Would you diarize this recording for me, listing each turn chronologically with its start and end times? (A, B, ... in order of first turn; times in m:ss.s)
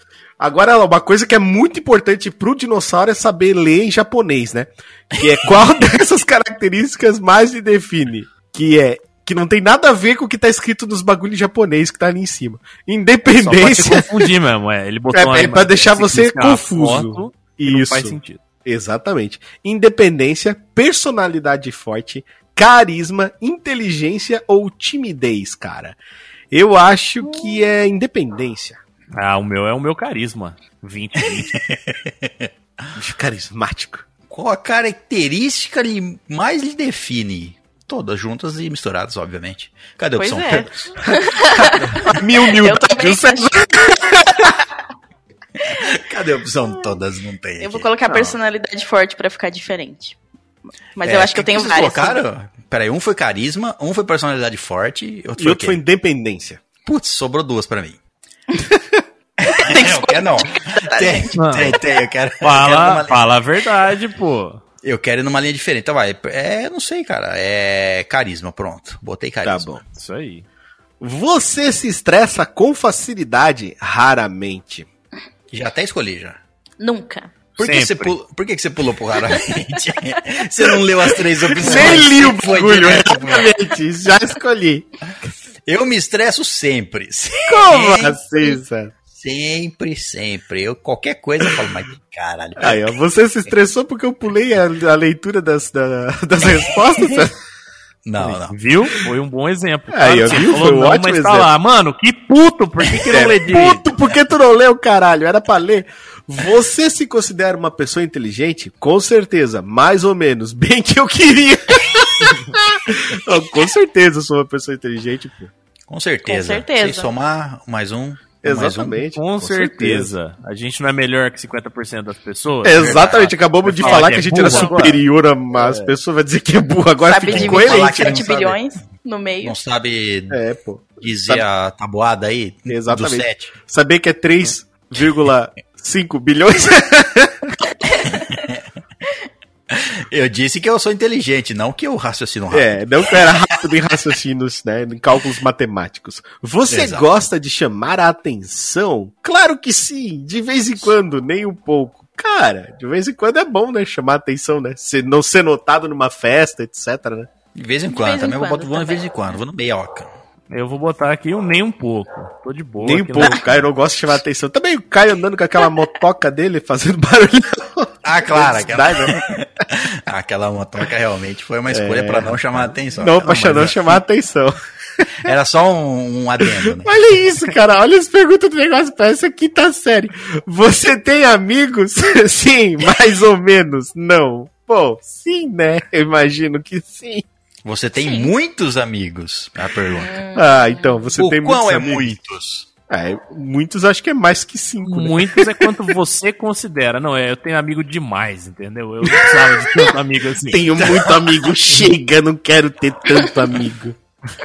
0:00.4-0:14.3 A
0:13.3-0:18.4 B
0:15.1-0:26.0 A
0:26.5-0:28.8 A
0:29.1-0:31.5 B
0:31.2-0:32.5 C
0:32.9-0:34.0 A
0:34.3-0:40.9 C
0:40.2-0:44.2 D
0:41.0-0:44.6 A
0:45.6-0:47.9 C
0:47.6-0:50.2 D
0:51.0-0:52.2 D
0:51.0-0:55.8 C
0:55.4-0:56.6 A
0:56.8-0:58.0 C
0:58.6-0:59.0 A
0:59.4-1:03.3 C
0:59.5-1:01.3 D
1:01.3-1:01.8 B
1:02.4-1:04.6 B
1:04.8-1:09.7 C
1:09.4-1:09.8 A
1:09.9-1:10.4 B
1:11.0-1:14.9 A
1:15.5-1:16.4 C
1:16.8-1:17.3 D
1:17.6-1:23.5 C
1:17.6-1:18.1 B
1:21.4-1:24.9 A
1:25.6-1:28.2 C
1:27.4-1:28.9 A
1:29.1-1:32.9 C
1:32.6-1:37.4 A
1:38.0-1:38.6 C
1:38.2-1:43.8 B
1:39.9-1:41.5 A
1:42.9-1:55.5 A
1:55.9-1:59.0 C
1:56.2-1:57.1 D
1:58.4-2:00.1 A
1:59.1-2:05.0 B
2:02.6-2:08.1 A
2:02.8-2:03.2 C
2:03.8-2:04.8 D
2:05.5-2:05.9 B
2:07.0-2:09.6 D
2:07.3-2:08.6 C
2:09.4-2:10.4 C
2:10.3-2:11.4 A
2:11.0-2:13.5 C
2:12.7-2:17.7 A
2:18.0-2:18.6 C
2:19.7-2:23.3 C
2:22.5-2:37.3 A
2:26.7-2:27.0 C
2:37.5-2:40.1 C
2:37.9-2:39.2 D
2:40.5-2:43.6 B
2:42.8-2:49.2 A
2:48.0-2:54.0 C
2:51.7-2:55.3 A
2:53.2-2:53.7 B
2:55.2-2:56.9 C
2:56.6-3:07.2 A
3:07.6-3:10.2 C
3:08.0-3:08.3 D
3:09.9-3:11.0 D
3:10.3-3:12.1 A
3:11.2-3:12.7 C
3:12.9-3:15.8 A
3:14.8-3:21.0 B
3:19.1-3:19.9 A
3:20.5-3:24.0 A
3:20.8-3:21.3 C